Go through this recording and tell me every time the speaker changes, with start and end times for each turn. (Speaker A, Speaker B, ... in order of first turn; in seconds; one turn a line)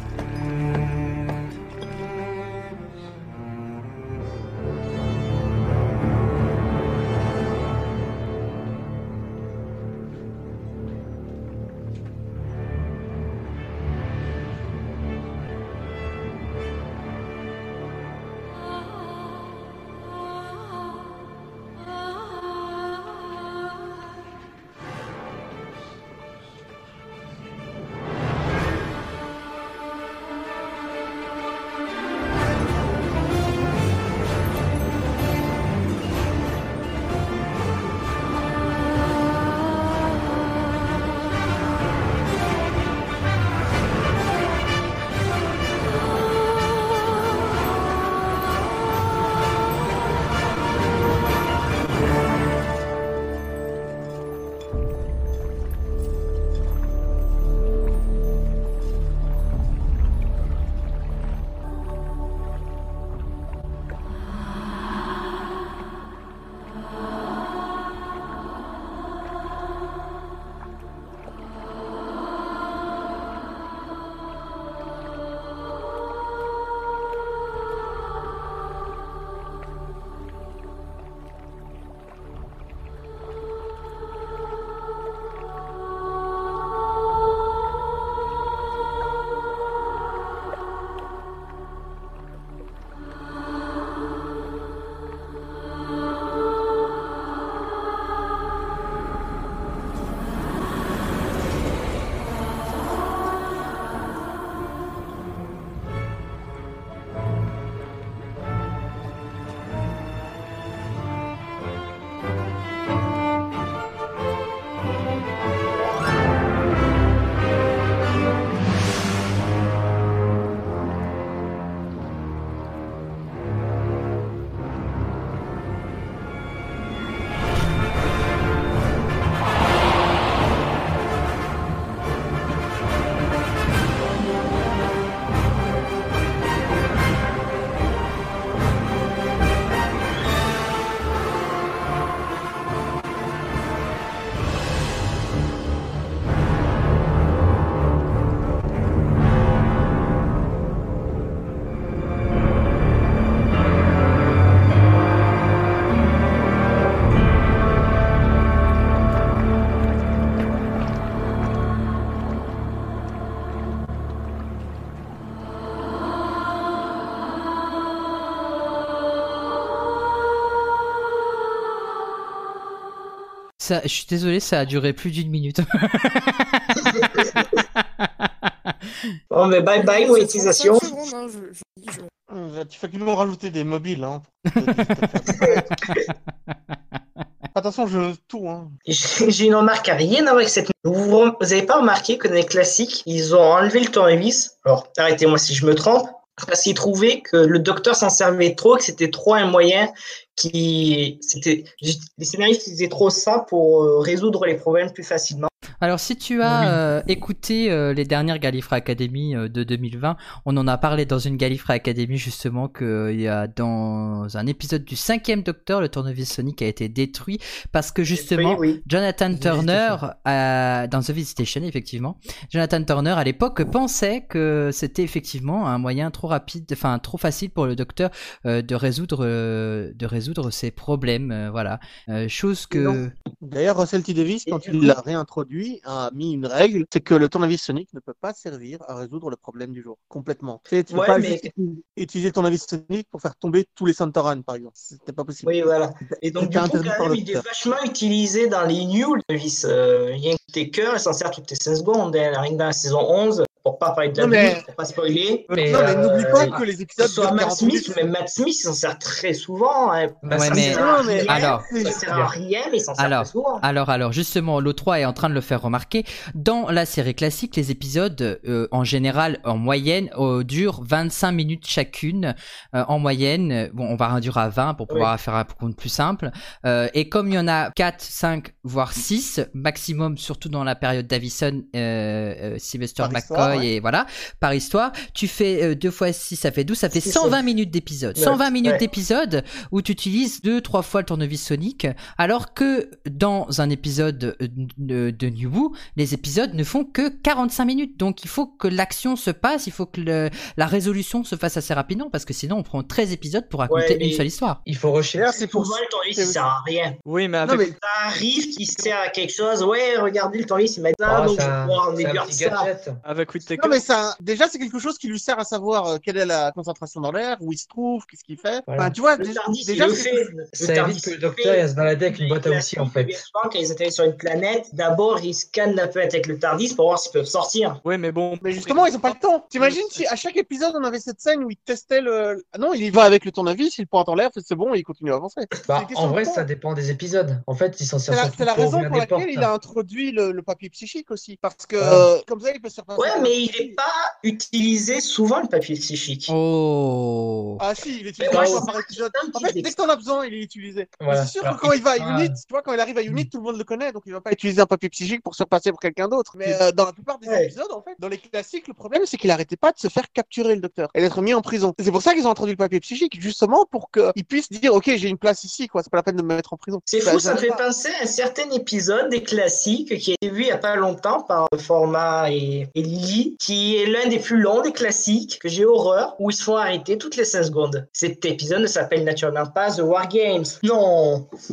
Speaker A: 173.6-176.6
Speaker B: 176.9-177.3
Speaker A: 178.0-178.7
Speaker B: 179.3-181.0
Speaker C: 179.8-182.1
Speaker D: 182.3-185.7
Speaker B: 185.3-186.0
Speaker D: 187.6-188.7
Speaker B: 188.9-205.5
Speaker A: 205.8-233.1
Speaker E: 206.5-206.7
Speaker B: 218.1-218.8
Speaker D: 219.3-220.0
Speaker B: 232.7-233.0
Speaker D: 233.4-245.6
Speaker B: 234.5-235.0
Speaker B: 240.9-241.5
Speaker B: 245.4-263.6
Speaker D: 246.4-247.4
Speaker D: 254.2-254.6
Speaker E: 255.5-256.6
Speaker D: 255.6-258.0
Speaker E: 260.2-261.3
Speaker A: 260.3-261.6
Speaker D: 260.6-262.0
Speaker E: 262.1-262.3
Speaker A: 263.0-304.6
Speaker D: 283.0-283.7
Speaker B: 286.9-287.4
Speaker B: 288.2-288.8
Speaker B: 303.7-304.3
Speaker E: 304.6-305.3
Speaker D: 305.1-306.4
Speaker B: 305.4-307.0
Speaker F: 307.1-307.7
Speaker D: 307.4-307.7
Speaker B: 307.7-312.7
Speaker E: 311.1-313.0
Speaker F: 313.1-313.8
Speaker D: 313.4-320.3
Speaker E: 318.7-318.9
Speaker B: 319.1-327.8
Speaker E: 320.6-323.2
Speaker F: 327.8-330.0
Speaker D: 328.4-336.5
Speaker E: 335.7-339.5
Speaker D: 338.1-343.8
Speaker B: 343.0-346.3
Speaker A: 346.3-347.6
Speaker D: 347.6-367.6
Speaker B: 348.2-349.8
Speaker E: 348.3-348.7
Speaker E: 351.0-352.4
Speaker B: 357.2-357.5
Speaker B: 366.9-381.3